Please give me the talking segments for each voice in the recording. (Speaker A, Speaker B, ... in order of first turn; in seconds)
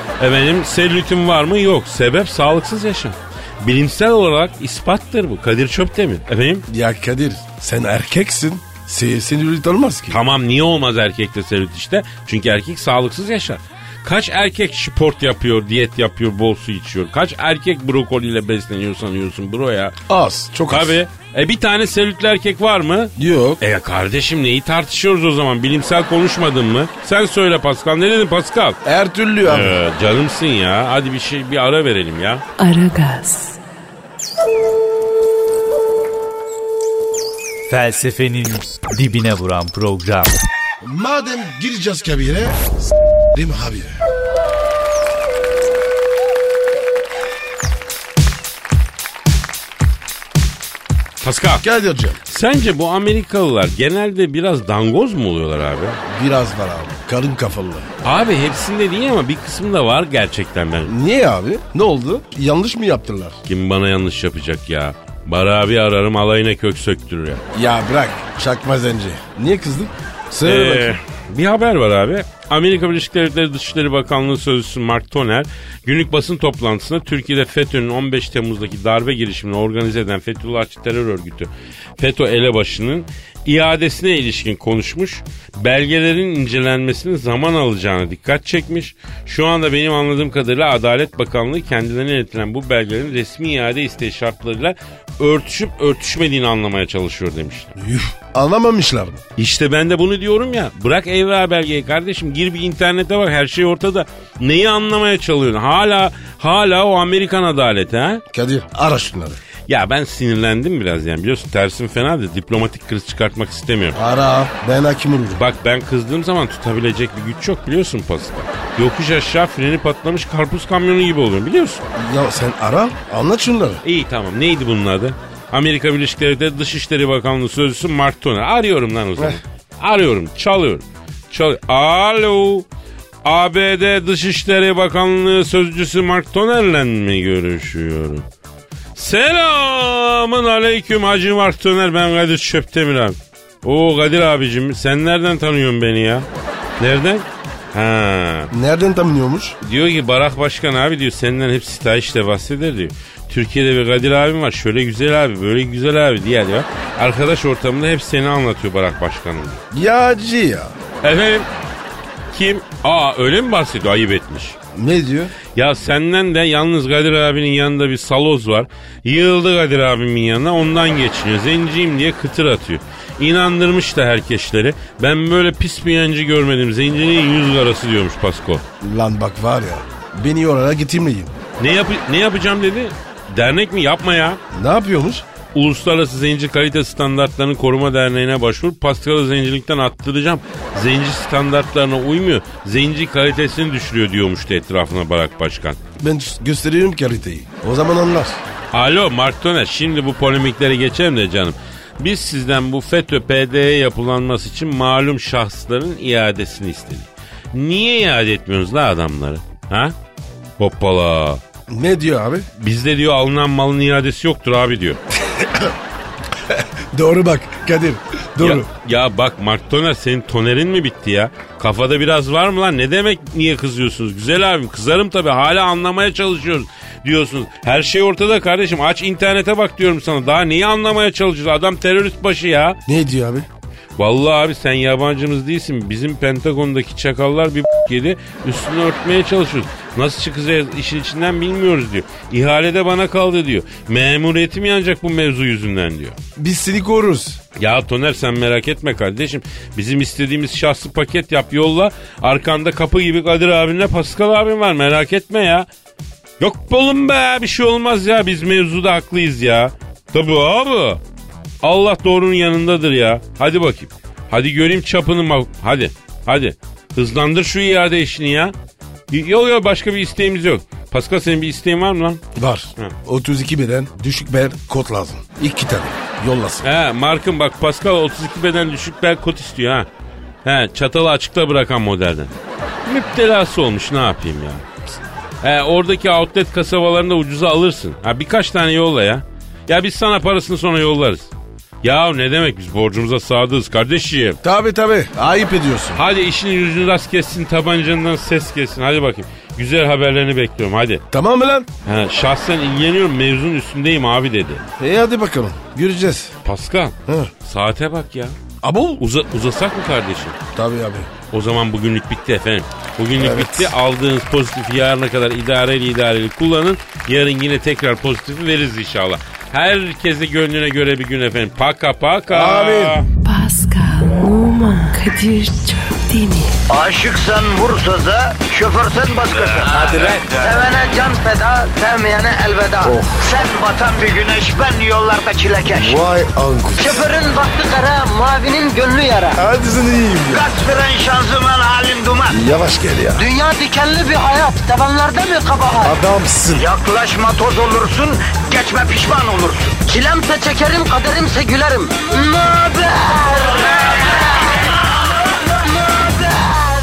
Speaker A: 0.2-6.7, 10.1-19.9, 20.7-28.8, 29.4-32.4, 51.2-51.6, 52.3-56.0, 58.0-60.9, 63.5-67.4, 70.4-97.7, 99.4-108.2, 109.7-114.0, 115.3-121.8, 123.8-132.7, 133.2-138.2, 138.9-146.3, 146.8-148.5, 149.6-159.6, 161.0-161.5, 162.3-164.6, 165.5-178.6, 181.6-184.4, 185.5-195.8, 198.7-209.9, 210.6-211.4, 212.6-215.0, 218.4-232.8, 234.0-246.2, 247.6-255.7, 256.4-261.0, 261.6-268.5, 269.1-272.2, 276.6-279.9, 280.4-282.3, 282.9-284.6, 285.4-291.3, 291.8-294.4, 295.9-301.0, 301.9-304.6, 306.4-308.4, 309.0-310.4, 311.3-323.1
Speaker B: 6.7-10.2, 20.1-21.0, 23.2-23.6, 28.8-29.8, 40.8-42.6, 43.3-44.0, 51.6-52.2, 56.1-57.9, 60.9-63.4, 67.5-70.9, 97.8-99.2, 108.3-109.4, 113.9-115.4, 122.0-123.8, 148.5-149.6, 159.7-160.7, 164.7-165.3, 178.8-181.4, 184.5-185.2, 196.0-198.4, 211.7-212.5, 215.3-215.7, 216.5-218.7, 232.9-233.5, 246.4-247.4, 272.4-276.7, 294.4-296.0, 301.1-301.7, 304.8-306.3, 307.1-307.3, 308.6-309.0, 310.5-311.1, 313.2-313.7, 322.3-323.0, 332.8-333.2, 335.7-337.0, 339.4-340.4, 342.3-343.2, 345.8-346.6
Speaker C: 32.6-33.6, 323.2-326.6
Speaker D: 37.7-40.4
Speaker E: 326.7-336.1, 336.8-339.4, 340.3-342.4, 343.1-346.0, 346.6-354.5, 355.6-356.6